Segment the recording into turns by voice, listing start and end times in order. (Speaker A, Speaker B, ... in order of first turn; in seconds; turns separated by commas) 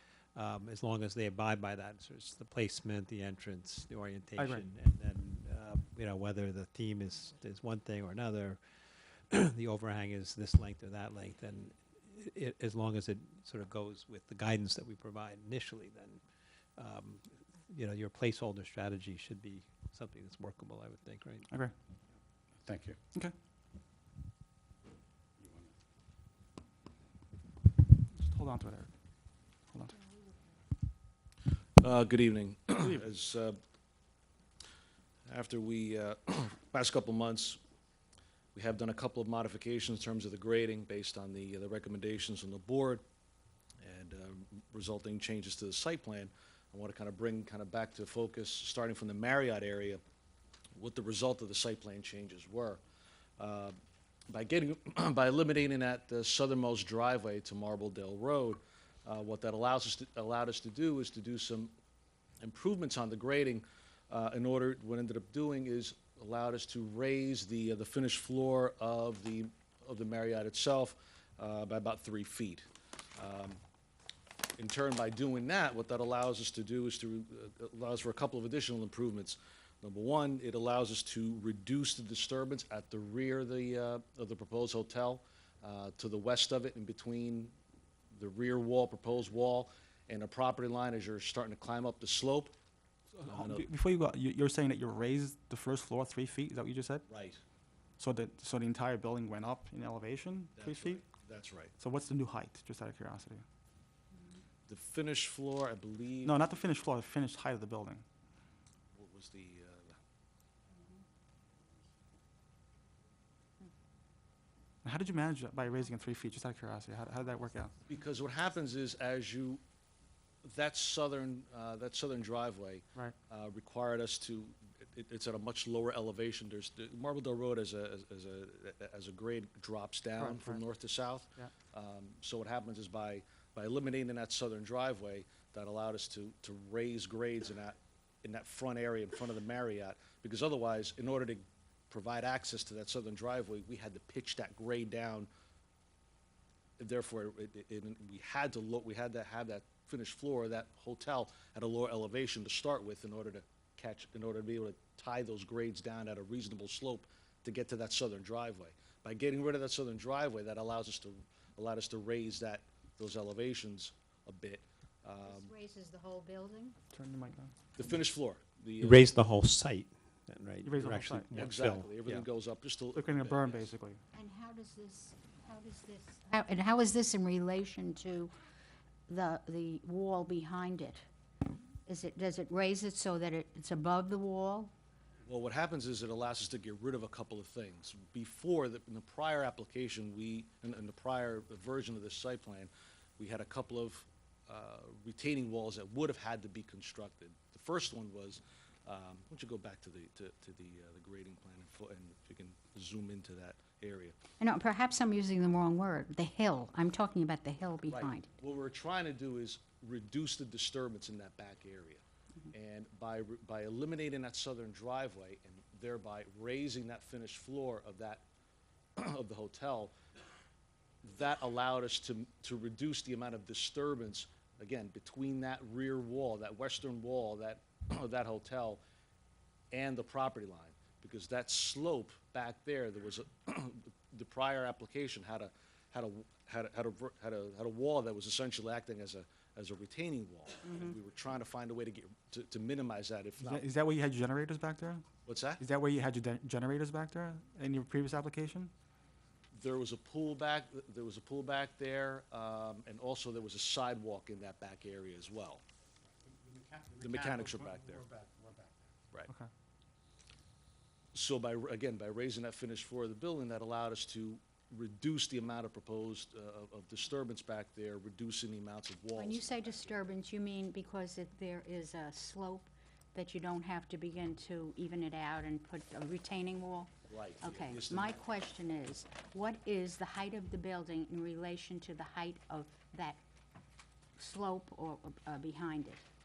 Speaker A: 0.3-16.2, Speaker B: 4.4-4.6, Speaker A: 16.8-21.5, Speaker B: 21.5-21.7, Speaker C: 22.6-23.0, Speaker C: 25.4-25.7, Speaker B: 28.1-28.9, Speaker D: 31.8-33.6, Speaker D: 35.3-37.6, Speaker D: 38.5-43.0, Speaker D: 43.8-50.0, Speaker D: 50.8-52.8, Speaker D: 53.4-53.8, Speaker D: 54.3-61.7, Speaker D: 62.4-73.6, Speaker D: 74.6-87.5, Speaker D: 88.1-92.5, Speaker B: 93.2-97.0, Speaker D: 93.3-93.6, Speaker D: 97.1-97.4, Speaker B: 98.0-101.0, Speaker D: 100.6-101.7, Speaker B: 101.8-103.4, Speaker D: 104.7-106.3, Speaker B: 106.2-108.0, Speaker D: 108.9-109.9, Speaker B: 114.8-117.8, Speaker D: 117.9-119.6, Speaker D: 120.4-145.3, Speaker B: 130.2-130.6, Speaker D: 146.8-165.5, Speaker E: 165.2-166.8, Speaker B: 166.9-167.5, Speaker D: 167.8-169.1, Speaker A: 168.8-172.2, Speaker B: 170.6-171.3, Speaker D: 171.3-173.7, Speaker B: 172.9-174.0, Speaker E: 174.1-178.3, Speaker E: 179.1-181.1, Speaker E: 181.8-184.7, Speaker D: 185.2-204.2, Speaker E: 204.4-208.3, Speaker D: 207.9-218.2, Speaker D: 219.0-219.9, Speaker D: 221.0-228.8, Speaker D: 229.7-243.6, Speaker B: 243.4-245.0, Speaker D: 245.2-245.6, Speaker B: 245.6-248.7, Speaker D: 249.5-255.6, Speaker C: 256.2-258.9, Speaker D: 257.0-258.1, Speaker D: 261.1-270.1, Speaker E: 269.2-283.2, Speaker D: 277.1-278.2, Speaker E: 284.2-286.0